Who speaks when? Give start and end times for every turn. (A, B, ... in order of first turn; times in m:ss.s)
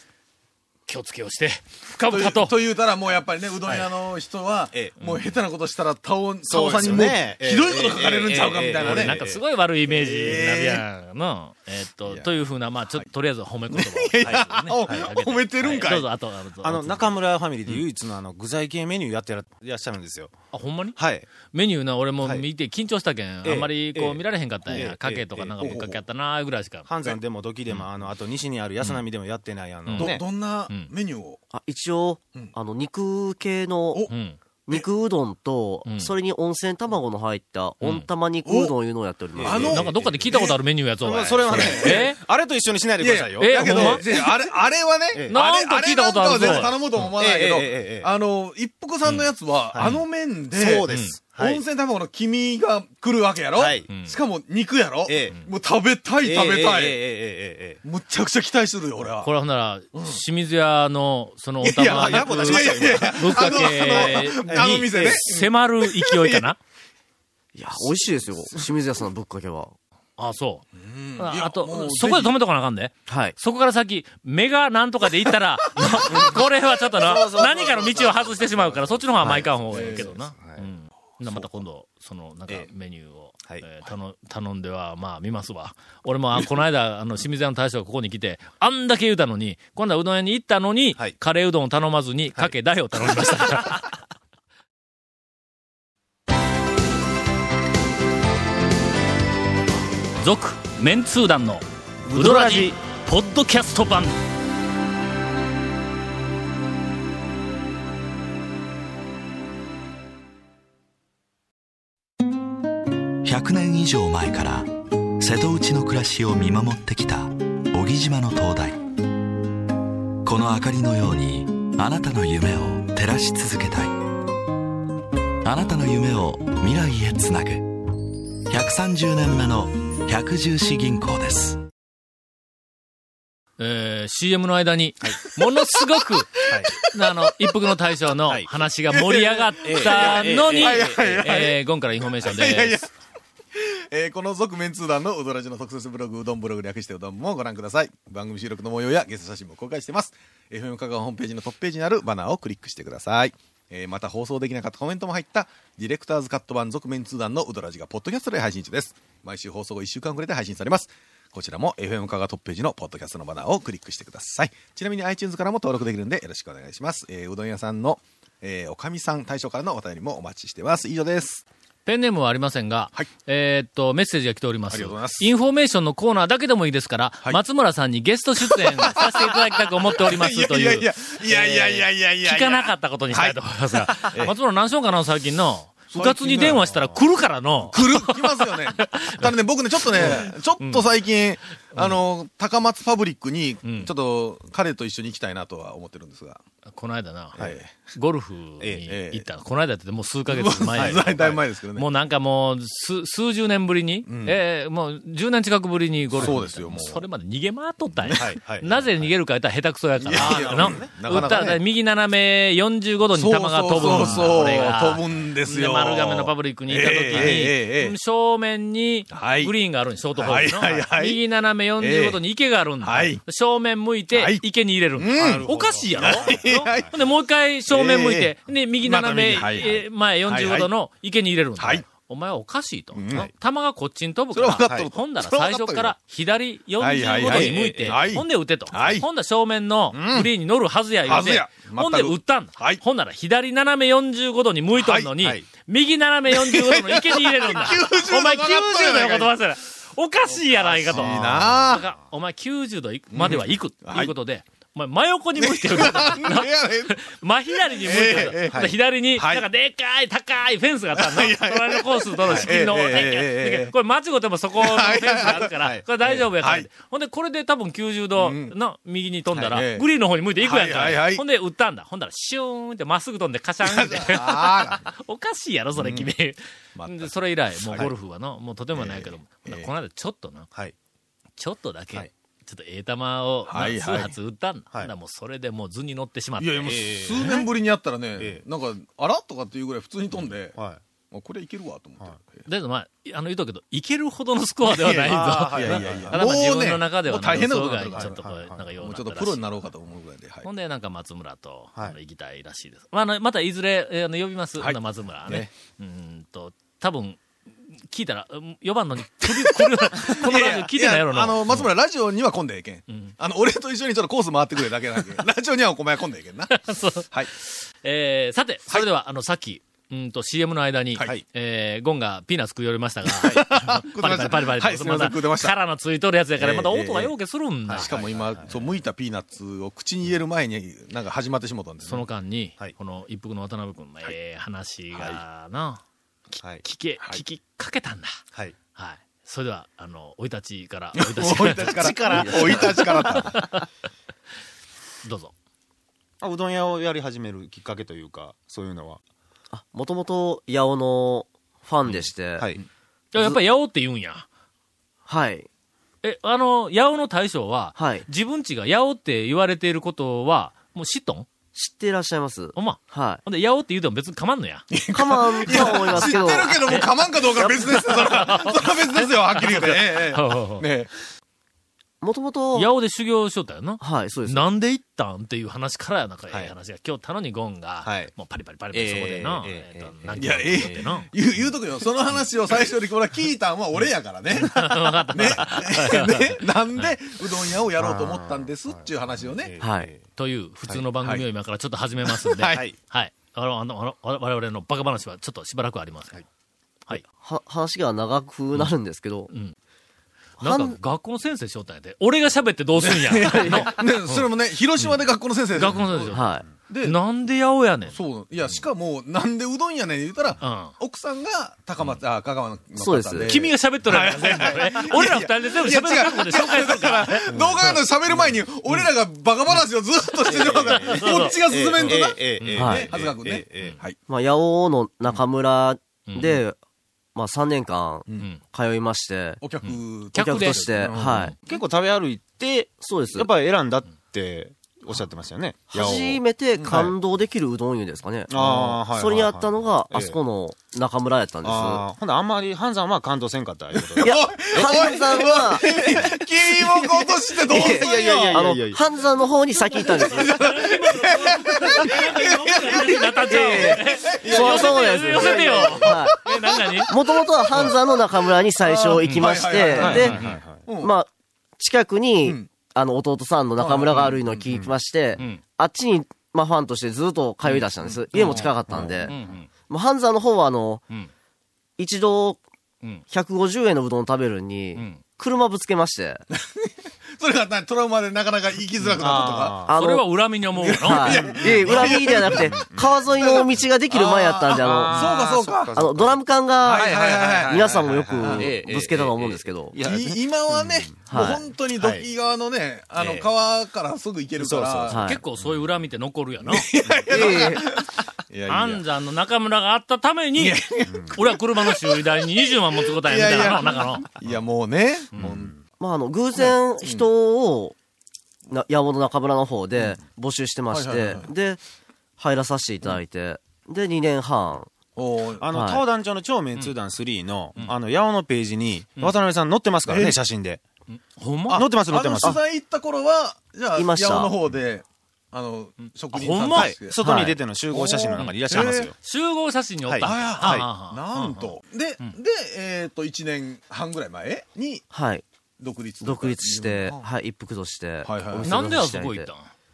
0:00.9-0:02.6 A
0:02.1-0:09.2 B
0:05.0-0:05.3 A
0:06.5-0:09.4 C
0:08.8-0:17.8 A
0:09.9-0:10.8 B
0:12.1-0:13.1 B
0:13.7-0:16.1 B
0:14.2-0:15.1 C
0:16.6-0:20.3 C
0:20.5-0:21.0 A
0:21.0-0:21.3 C
0:21.5-0:26.9 A
0:23.4-0:25.8 C
0:25.6-0:26.0 B
0:26.9-0:30.2 C
0:29.9-0:30.2 A
0:30.0-0:31.4 B
0:31.5-0:34.1 D
0:34.1-0:34.4 A
0:34.7-0:39.8 D
0:35.8-0:36.1 A
0:37.8-0:38.1 A
0:38.4-0:38.7 B
0:39.4-0:40.3 C
0:39.4-0:40.6 B
0:39.7-0:42.2 A
0:41.0-0:44.3 C
0:41.5-0:42.1 B
0:43.0-0:57.0 B
0:43.4-0:44.0 A
0:45.3-0:46.7 A
0:46.3-0:48.1 C
0:49.1-0:50.0 A
0:49.7-0:50.0 C
0:50.5-0:51.6 C
0:50.9-0:51.2 A
0:53.6-0:53.9 C
0:53.9-0:54.2 A
0:55.1-0:55.4 C
0:56.2-0:57.8 C
0:57.8-0:59.3 B
0:59.2-1:06.6 A
0:59.9-1:00.2 B
1:01.6-1:06.5 B
1:01.8-1:05.2 C
1:07.6-1:09.8 D
1:10.2-1:10.6 A
1:10.8-1:12.4 B
1:11.2-1:33.9 A
1:13.1-1:13.4 D
1:15.8-1:16.2 B
1:16.1-1:20.7 C
1:19.7-1:20.1 B
1:21.2-1:21.5 C
1:33.1-1:33.8 C
1:40.2-1:44.2 A
1:42.0-1:42.8 C
1:53.2-1:58.8 E
2:00.2-2:04.0 E
2:05.4-2:07.8 E
2:08.5-2:11.6 E
2:13.6-2:22.8 A
2:16.4-2:16.9 B
2:16.5-2:16.7 C
2:18.9-2:21.6 B
2:19.6-2:20.9 C
2:22.2-2:22.9 B
2:23.6-2:51.4 B
2:51.9-3:09.3 A
2:54.7-2:55.3 B
2:58.4-3:04.3 B
3:05.9-3:06.7 B
3:06.5-3:07.0 C
3:07.7-3:16.4 B
3:09.8-3:10.9 A
3:11.7-3:12.0 A
3:13.6-3:13.9 A
3:16.7-3:17.4 A
3:17.4-3:17.7 B
3:17.9-4:40.5 A
3:18.6-3:18.9 C
3:18.9-3:19.3 B
3:20.3-3:21.9 B
3:20.7-3:21.1 C
3:24.1-3:24.4 B
3:26.2-3:27.0 B
3:28.1-3:29.1 C
3:30.0-3:31.6 B
3:30.1-3:31.3 C
3:33.1-3:38.0 B
3:33.9-3:34.3 C
3:37.1-3:37.4 C
3:39.1-3:39.5 B
3:40.2-3:41.2 B
3:41.8-3:42.2 B
3:42.8-3:43.2 B
3:44.1-3:44.4 B
3:45.0-3:47.0 B
3:45.2-3:46.9 C
3:47.7-3:50.7 B
3:51.6-3:51.8 B
3:53.0-3:53.3 B
3:54.3-3:55.9 B
3:56.8-3:59.1 B
3:57.2-3:58.1 C
3:59.9-4:00.3 B
4:01.0-4:02.8 B
4:04.8-4:05.1 B
4:05.2-4:05.4 C
4:06.3-4:09.3 B
4:10.4-4:11.8 B
4:10.9-4:11.8 C
4:13.1-4:14.1 B
4:15.4-4:17.0 B
4:17.6-4:19.5 B
4:18.5-4:18.7 C
4:21.0-4:23.7 B
4:24.6-4:25.5 B
4:25.5-4:25.8 C
4:26.1-4:26.7 B
4:28.2-4:28.6 B
4:29.3-4:29.9 B
4:30.4-4:31.2 B
4:33.6-4:34.9 B
4:35.8-4:36.1 B
4:36.8-4:37.9 B
4:38.8-4:39.7 B
4:41.4-4:47.3 A
4:43.5-4:44.1 B
4:46.4-4:50.6 B
4:46.6-4:47.5 C
4:50.5-4:50.8 C
4:51.1-4:52.5 B
4:52.5-4:59.4 A
4:54.7-4:58.2 B
4:55.1-4:56.3 C
4:57.9-4:58.6 C
4:58.8-5:00.5 B
5:00.4-5:07.2 A
5:04.6-5:05.5 B
5:07.9-5:11.7 A
5:09.2-5:17.3 B
5:16.5-5:28.0 A
5:23.1-5:25.6 B
5:26.4-5:27.1 B
5:27.7-5:28.6 C
5:27.8-5:32.0 B
5:31.9-5:38.2 A
5:38.8-5:42.0 A
5:41.0-5:43.5 B
5:41.6-5:43.5 C
5:42.1-5:42.9 D
5:42.5-5:43.7 A
5:45.0-5:45.3 A
5:46.2-5:49.0 C
5:49.5-5:52.5 D
5:53.1-5:54.3 A
5:55.1-5:55.5 D
5:56.0-6:01.3 A
5:57.8-5:58.1 D
6:01.5-6:03.2 D
6:02.6-6:04.7 A
6:04.7-6:10.9 B
6:04.9-6:06.8 D
6:05.5-6:06.9 A
6:07.4-6:07.9 D
6:07.9-6:10.7 A
6:12.0-6:12.7 D
6:12.6-6:21.1 A
6:13.8-6:14.5 D
6:17.8-6:18.1 C
6:18.7-6:20.9 C
6:20.2-6:29.5 B
6:24.4-6:26.9 A
6:27.8-6:30.1 C
6:29.6-6:29.9 D
6:30.2-6:36.2 A
6:32.2-6:32.7 B
6:32.4-6:32.8 C
6:37.2-6:39.3 D
6:39.3-6:39.6 A
6:40.4-6:44.3 A
6:40.4-6:40.8 D
6:42.8-6:47.0 B
6:43.2-6:43.8 D
6:45.6-6:48.0 A
6:46.1-6:46.5 D
6:47.9-7:04.0 B
6:50.4-6:50.7 A
6:52.8-6:53.3 D
6:53.2-6:57.8 A
7:00.3-7:03.8 C
7:00.3-7:02.7 A
7:02.6-7:02.9 D
7:04.1-7:06.6 D
7:06.1-7:06.4 A
7:07.2-7:09.4 D
7:09.4-7:11.3 B
7:09.6-7:11.3 A
7:10.2-7:11.4 D
7:11.4-7:17.0 C
7:12.8-7:13.3 D
7:15.7-7:21.8 D
7:16.6-7:16.9 B
7:18.3-7:20.2 C
7:21.4-7:24.9 C
7:23.8-7:28.4 B
7:24.0-7:30.5 D
7:27.5-7:28.8 C
7:29.7-7:36.9 A
7:29.9-7:37.8 B
7:32.7-7:36.2 D
7:36.9-7:40.2 D
7:38.6-7:40.9 B
7:39.0-7:40.4 A
7:39.8-7:40.6 C
7:40.8-7:49.2 D
7:42.2-7:42.5 B
7:43.6-7:44.5 B
7:47.8-7:49.1 B
7:48.2-7:49.3 C
7:49.1-7:49.5 A
7:49.7-7:50.8 D
7:51.8-7:52.4 D
7:53.1-7:56.2 D
7:54.8-7:55.0 A
7:56.3-7:59.6 B
7:58.8-7:59.8 C
7:59.7-8:00.0 D
7:59.8-8:01.2 A
8:00.6-8:02.6 B
8:00.8-8:05.1 D
8:01.2-8:03.3 C
8:03.2-8:05.7 B
8:04.5-8:11.2 C
8:05.7-8:09.8 D
8:06.6-8:08.6 B
8:09.8-8:15.0 B
8:11.1-8:11.4 D
8:11.8-8:12.1 C
8:13.0-8:13.3 C
8:14.4-8:15.5 C
8:14.9-8:15.2 D
8:15.0-8:16.7 A
8:16.4-8:18.8 B
8:17.1-8:17.7 D
8:18.5-8:20.6 A
8:20.4-8:25.5 B
8:20.9-8:21.2 C
8:21.2-8:24.1 A
8:25.2-8:25.6 C
8:25.8-8:27.8 D
8:26.4-8:27.1 B
8:28.5-8:31.6 D
8:30.7-8:31.3 B
8:32.2-8:34.7 D
8:35.0-8:35.5 B
8:35.4-8:40.6 C
8:35.5-8:35.8 D
8:39.9-8:40.2 B
8:40.9-8:41.7 A
8:41.5-8:47.0 B
8:41.5-8:42.4 C
8:43.8-8:44.4 D
8:46.1-8:46.8 A
8:46.5-8:49.0 C
8:47.0-8:47.4 D
8:47.7-8:48.9 B
8:48.2-8:52.2 A
8:49.9-8:50.7 C
8:50.0-8:54.9 B
8:54.9-8:55.2 D
8:55.6-8:57.1 B
8:56.0-8:59.3 D
8:58.0-8:58.5 B
8:58.4-8:59.5 A